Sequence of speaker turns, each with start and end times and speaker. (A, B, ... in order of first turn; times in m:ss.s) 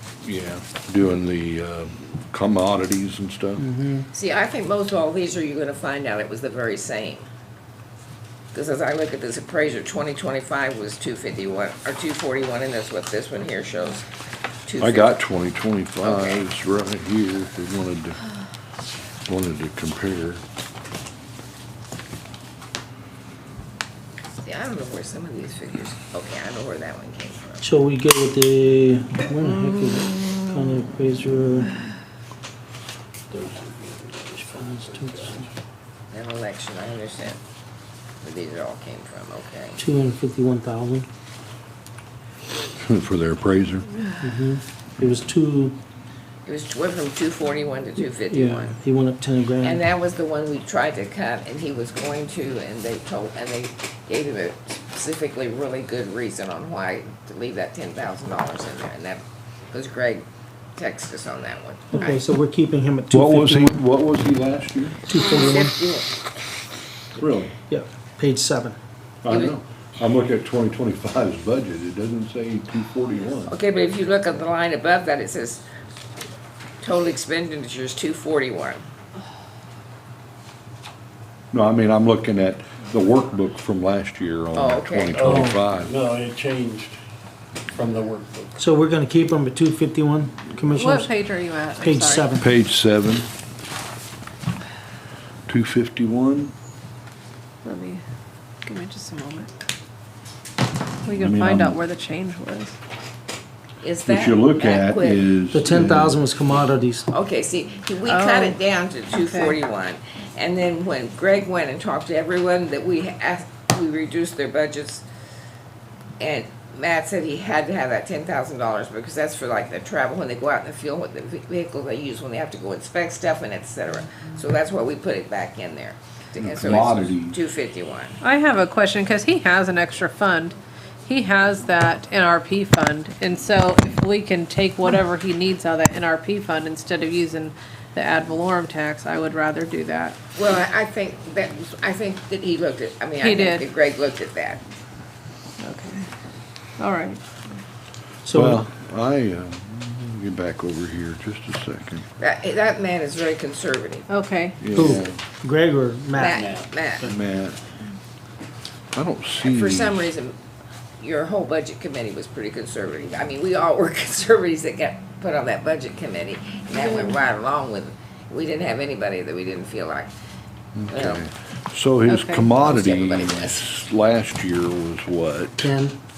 0:00.2-0:03.6 A
0:03.6-0:04.1 B
0:04.1-0:07.2 C
0:08.5-0:14.0 C
0:14.7-0:15.2 C
0:14.8-0:18.2 A
0:16.0-0:16.4 C
0:19.3-0:20.4 A
0:24.4-0:27.6 C
0:27.6-0:31.7 B
0:33.3-0:35.5 B
0:36.1-0:37.4 C
0:38.2-0:39.8 C
0:39.8-0:41.1 B
0:42.8-0:43.9 A
0:44.2-0:45.8 B
0:46.4-0:48.8 C
0:48.3-0:49.8 B
0:49.6-1:02.2 C
1:01.9-1:03.8 B
1:03.1-1:05.1 A
1:05.1-1:05.8 B
1:05.1-1:06.1 C
1:07.2-1:07.6 A
1:07.7-1:08.8 B
1:09.2-1:13.6 A
1:09.3-1:09.6 C
1:13.5-1:15.6 C
1:16.8-1:18.8 C
1:21.5-1:26.0 A
1:24.5-1:25.2 C
1:25.1-1:27.0 D
1:25.2-1:25.6 B
1:27.7-1:28.6 D
1:28.6-1:31.1 B
1:30.8-1:32.3 E
1:31.8-1:32.5 B
1:32.4-1:33.3 A
1:35.5-1:36.5 A
1:37.6-1:38.0 E
1:38.6-1:39.5 E
1:41.0-1:42.8 E
1:41.1-1:41.8 A
1:43.8-1:45.3 C
1:44.1-1:46.2 A
1:45.5-1:47.1 B
1:47.1-1:55.0 C
1:48.0-1:48.6 E
1:49.1-1:49.6 E
1:56.2-2:08.2 C
2:06.4-2:07.4 A
2:08.2-2:20.2 E
2:20.4-2:24.6 C
2:23.2-2:23.6 E
2:25.6-2:26.1 E
2:26.8-2:27.2 E
2:28.2-2:28.6 B
2:28.3-2:32.1 A
2:32.2-2:34.0 C
2:34.1-2:34.6 E
2:34.6-2:35.2 A
2:34.7-2:36.5 B
2:36.2-2:37.1 C
2:36.3-2:36.7 D
2:37.0-2:37.6 A
2:38.9-2:40.1 A
2:39.4-2:40.4 C
2:41.0-2:50.1 C
2:50.8-2:55.7 A
2:50.9-2:51.3 C
2:52.1-2:52.5 E
2:52.5-2:53.6 C
2:55.6-2:56.0 B